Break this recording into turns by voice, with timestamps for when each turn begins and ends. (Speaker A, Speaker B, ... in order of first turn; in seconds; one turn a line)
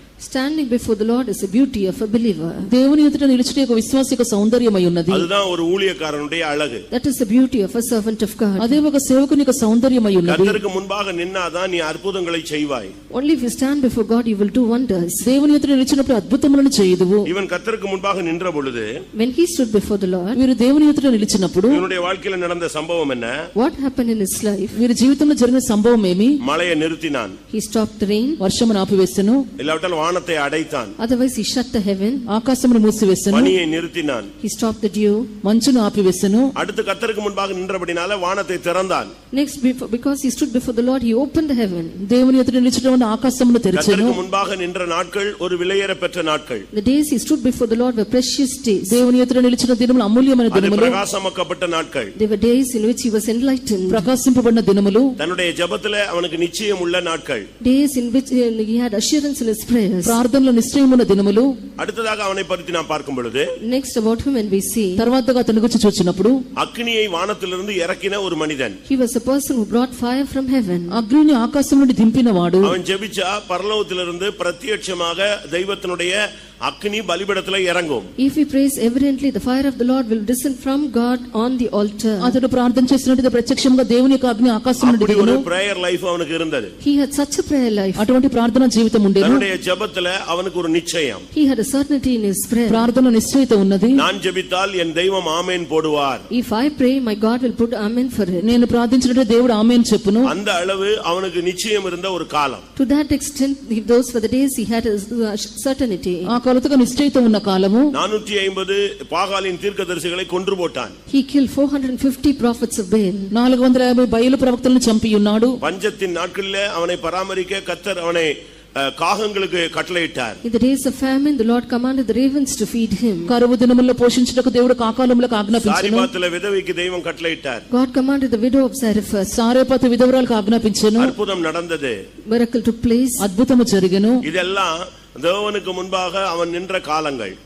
Speaker A: 0.2-2.7
Speaker B: 2.7-5.3
Speaker C: 5.1-6.8
Speaker A: 6.9-8.8
Speaker B: 8.6-10.6
Speaker C: 10.2-12.9
Speaker A: 13.1-15.3
Speaker B: 15.2-17.3
Speaker C: 17.2-18.9
Speaker A: 19.1-20.4
Speaker B: 20.3-21.8
Speaker C: 21.7-23.3
Speaker A: 23.6-24.8
Speaker B: 24.8-26.3
Speaker C: 26.4-27.4
Speaker A: 27.5-28.4
Speaker B: 28.4-29.4
Speaker C: 29.6-30.9
Speaker A: 31.0-32.2
Speaker B: 32.3-33.5
Speaker C: 33.3-34.3
Speaker A: 34.4-35.3
Speaker B: 35.4-36.5
Speaker C: 36.6-39.1
Speaker A: 39.3-42.0
Speaker B: 42.0-44.2
Speaker C: 43.8-46.7
Speaker A: 46.7-49.0
Speaker B: 48.9-51.0
Speaker C: 50.5-52.1
Speaker A: 52.2-54.0
Speaker B: 53.9-55.1
Speaker C: 55.2-57.5
Speaker A: 57.6-60.2
Speaker B: 60.0-61.5
Speaker C: 61.8-63.5
Speaker A: 63.6-65.0
Speaker B: 65.0-66.4
Speaker C: 66.6-68.8
Speaker A: 68.9-71.0
Speaker B: 70.9-72.8
Speaker C: 72.6-78.1
Speaker A: 78.2-82.3
Speaker B: 82.2-85.4
Speaker C: 84.8-86.7
Speaker A: 86.8-88.1
Speaker B: 88.0-89.4
Speaker C: 89.2-91.2
Speaker A: 91.3-92.9
Speaker B: 92.7-94.0
Speaker C: 94.0-96.2
Speaker A: 96.3-98.5
Speaker B: 98.4-100.3
Speaker C: 100.2-102.6
Speaker A: 102.8-106.3
Speaker B: 106.3-107.9
Speaker C: 107.9-110.9
Speaker A: 111.1-113.3
Speaker B: 113.3-115.6
Speaker C: 115.6-120.4
Speaker A: 120.4-123.3
Speaker B: 123.3-126.1
Speaker C: 125.5-127.6
Speaker A: 127.7-129.3
Speaker B: 129.3-131.1
Speaker C: 131.0-132.0
Speaker A: 132.3-133.2
Speaker B: 133.2-134.2
Speaker C: 134.2-137.3